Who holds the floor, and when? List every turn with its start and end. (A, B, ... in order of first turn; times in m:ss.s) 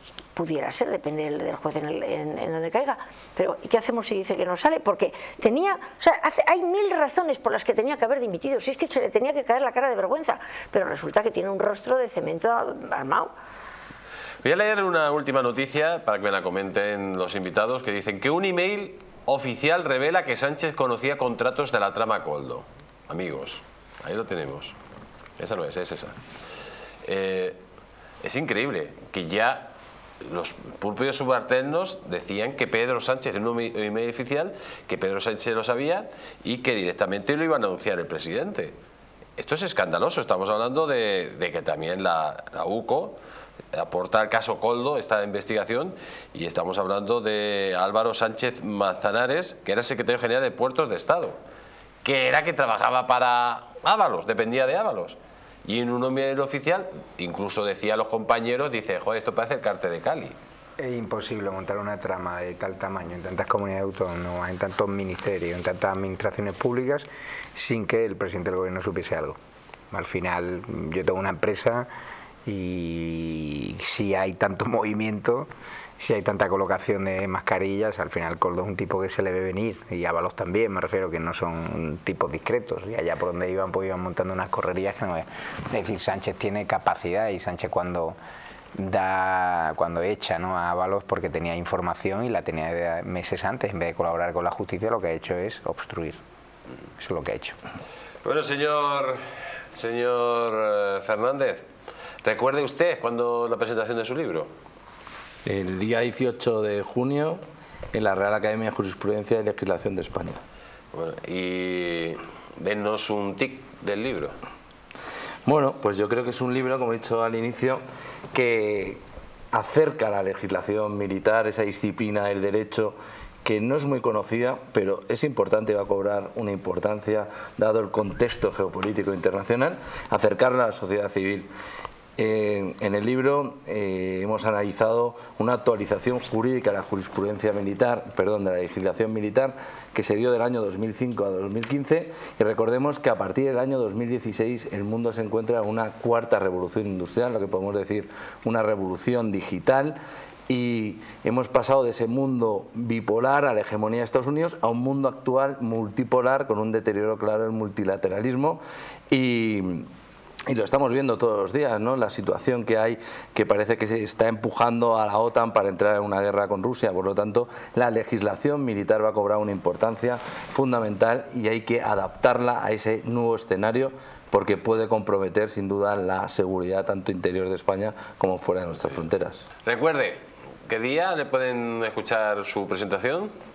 0:00.4-0:13.3 A
0:14.4-0:24.8 B
0:25.4-0:26.2 B
0:27.0-0:27.6 B
0:28.2-0:38.8 B
0:39.4-0:43.2 B
0:43.7-0:51.4 B
0:52.0-1:00.4 B
1:00.8-1:09.4 C
1:09.9-1:11.9 C
1:12.4-1:28.2 C
1:28.8-1:36.2 C
1:37.0-1:37.6 C
1:38.2-1:39.2 B
1:39.7-1:41.7 B
1:42.2-1:44.5 B
1:45.5-1:47.4 D
1:47.9-1:50.4 D
1:50.9-1:54.4 B
1:55.4-1:57.8 D
1:58.3-1:59.0 D
1:59.5-2:11.5 D
2:12.2-2:30.0 D
2:30.5-2:38.6 D
2:39.1-2:39.9 D
2:40.5-2:59.5 D
2:59.6-3:03.3 B